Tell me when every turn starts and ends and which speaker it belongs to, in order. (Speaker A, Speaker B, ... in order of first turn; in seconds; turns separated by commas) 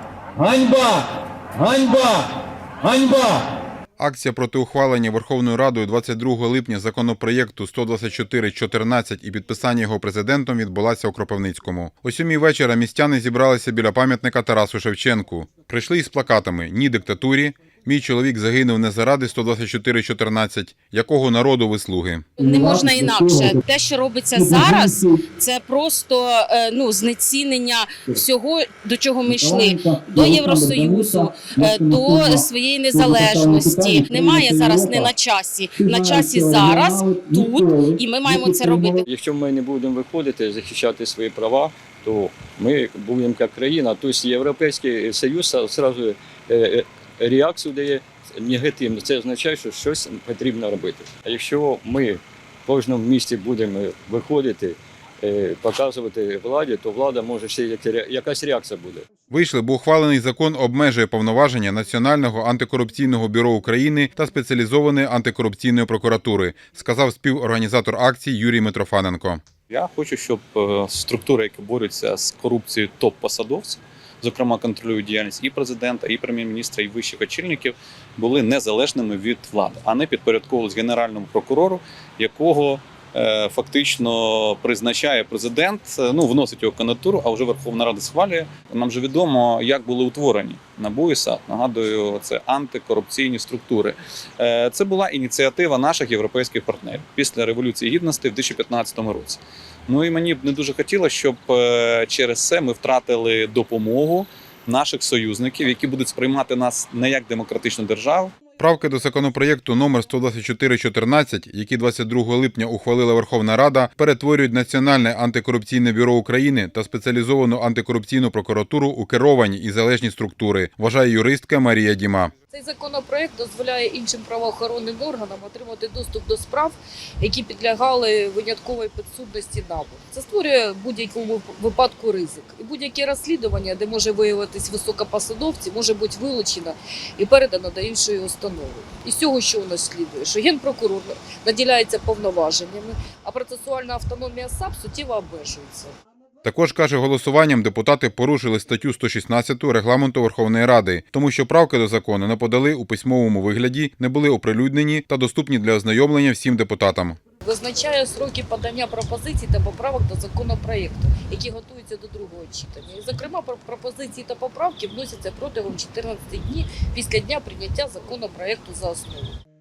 Speaker A: 0.4-3.5, Speaker B: 4.0-22.3, Speaker C: 22.4-39.0, Speaker A: 22.5-23.4, Speaker A: 29.3-32.4, Speaker A: 33.2-33.9, Speaker A: 34.4-34.9, Speaker D: 35.8-38.0, Speaker A: 38.3-38.6, Speaker D: 38.8-59.0, Speaker B: 59.3-69.4, Speaker E: 69.7-108.3, Speaker B: 108.6-122.3, Speaker F: 122.5-145.9, Speaker B: 146.4-157.2, Speaker F: 157.4-169.3